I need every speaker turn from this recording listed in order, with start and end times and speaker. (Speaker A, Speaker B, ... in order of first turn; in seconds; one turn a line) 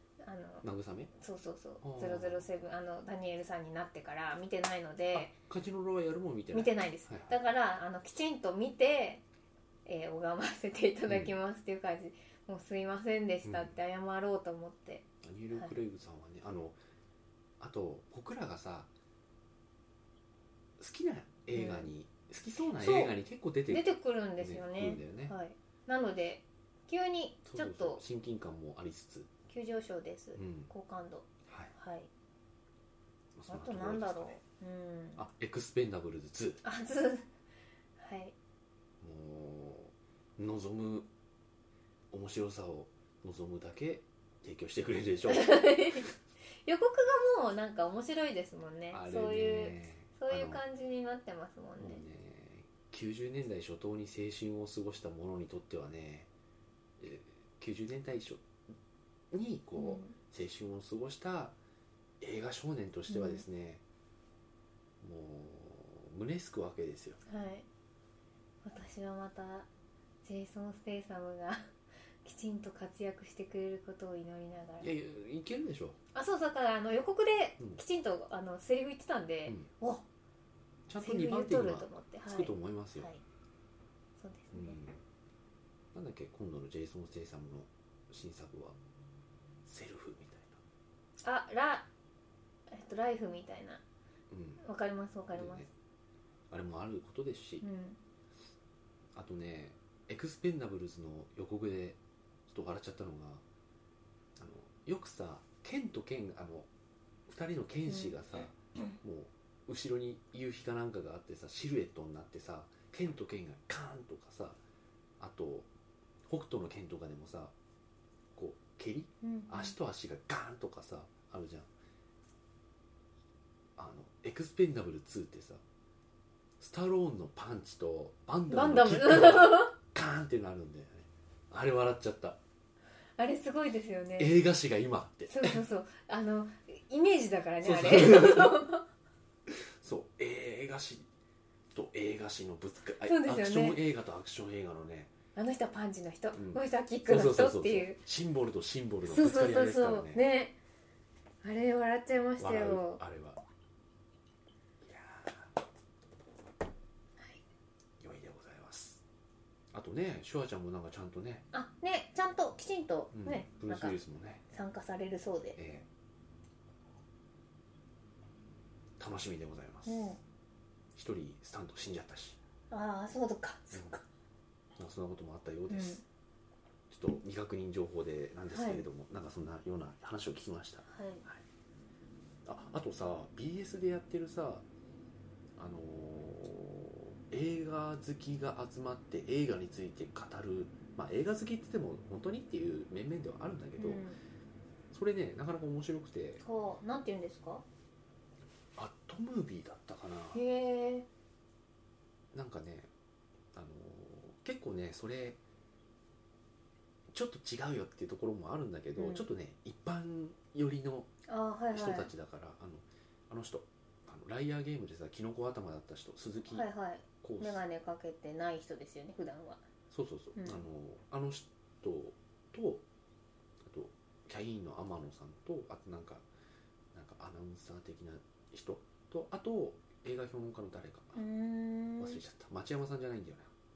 Speaker A: 0.2-5.4
Speaker B: 0.6-1.1
Speaker B: 1.8-2.5
Speaker B: 5.2-7.3
Speaker A: 6.5-9.2
Speaker A: 9.9-15.7
Speaker B: 13.4-13.7
Speaker B: 15.2-16.8
Speaker B: 17.6-18.9
Speaker B: 20.8-25.3
Speaker A: 21.5-21.9
Speaker A: 22.8-23.2
Speaker A: 23.7-28.0
Speaker B: 27.5-29.3
Speaker A: 29.5-32.1
Speaker B: 30.4-30.7
Speaker B: 31.5-31.7
Speaker B: 33.4-34.4
Speaker A: 33.5-35.2
Speaker B: 35.2-36.6
Speaker A: 36.6-37.3
Speaker A: 38.0-38.4
Speaker B: 39.0-41.1
Speaker B: 42.1-46.1
Speaker A: 45.3-46.1
Speaker A: 46.6-52.0
Speaker B: 48.9-50.6
Speaker B: 51.8-56.3
Speaker B: 57.0-58.4
Speaker B: 59.3-61.5
Speaker A: 59.8-60.2
Speaker B: 62.2-63.8
Speaker A: 63.1-63.4
Speaker B: 65.0-67.2
Speaker A: 67.3-67.7
Speaker A: 68.6-69.7
Speaker A: 70.2-71.7
Speaker A: 72.2-74.9
Speaker B: 74.8-76.0
Speaker A: 76.1-80.0
Speaker B: 80.9-83.1
Speaker A: 81.0-83.2
Speaker A: 84.2-84.8
Speaker B: 84.5-85.0
Speaker B: 85.9-88.8
Speaker B: 89.7-90.6
Speaker A: 91.2-91.9
Speaker A: 92.7-93.8
Speaker B: 94.3-94.6
Speaker A: 94.6-95.7
Speaker B: 95.3-95.7
Speaker B: 96.5-97.6
Speaker A: 97.6-98.0
Speaker B: 99.2-103.4
Speaker B: 104.4-106.7
Speaker B: 107.3-114.6
Speaker A: 107.9-108.2
Speaker B: 115.2-115.7
Speaker B: 116.3-117.5
Speaker B: 118.4-121.7
Speaker A: 119.2-119.8
Speaker B: 123.8-125.6
Speaker B: 126.6-132.4
Speaker A: 128.5-129.7
Speaker A: 133.2-134.3
Speaker B: 134.2-135.6
Speaker A: 135.3-138.8
Speaker B: 137.6-138.6
Speaker B: 139.5-141.1
Speaker B: 141.7-145.1
Speaker A: 143.0-143.8
Speaker A: 145.3-148.0
Speaker B: 146.3-150.2
Speaker A: 149.1-150.6
Speaker A: 151.4-153.0
Speaker B: 152.4-153.4
Speaker B: 154.8-155.5
Speaker B: 158.0-159.0
Speaker B: 159.7-161.5
Speaker A: 161.5-164.0
Speaker B: 163.1-164.4
Speaker A: 164.5-165.6
Speaker B: 165.6-165.9
Speaker B: 169.0-170.1
Speaker A: 169.9-170.2
Speaker B: 170.9-172.4
Speaker A: 172.7-174.0
Speaker B: 173.7-174.0
Speaker B: 174.8-176.0
Speaker A: 175.7-176.0
Speaker B: 176.9-181.4
Speaker A: 178.5-178.9
Speaker A: 180.9-181.2
Speaker B: 182.4-184.7
Speaker B: 185.6-194.1
Speaker A: 193.8-194.2
Speaker B: 194.9-196.4
Speaker A: 196.4-197.6
Speaker B: 198.8-200.4
Speaker A: 200.3-201.1
Speaker B: 202.3-202.9
Speaker B: 203.5-205.4
Speaker B: 207.1-211.1
Speaker A: 209.0-209.3
Speaker A: 211.3-212.1
Speaker B: 211.7-216.7
Speaker A: 216.5-219.6
Speaker B: 217.2-217.6
Speaker B: 219.9-222.8
Speaker A: 220.4-220.6
Speaker B: 223.6-226.2
Speaker B: 226.9-231.2
Speaker A: 231.2-232.2
Speaker B: 232.0-233.5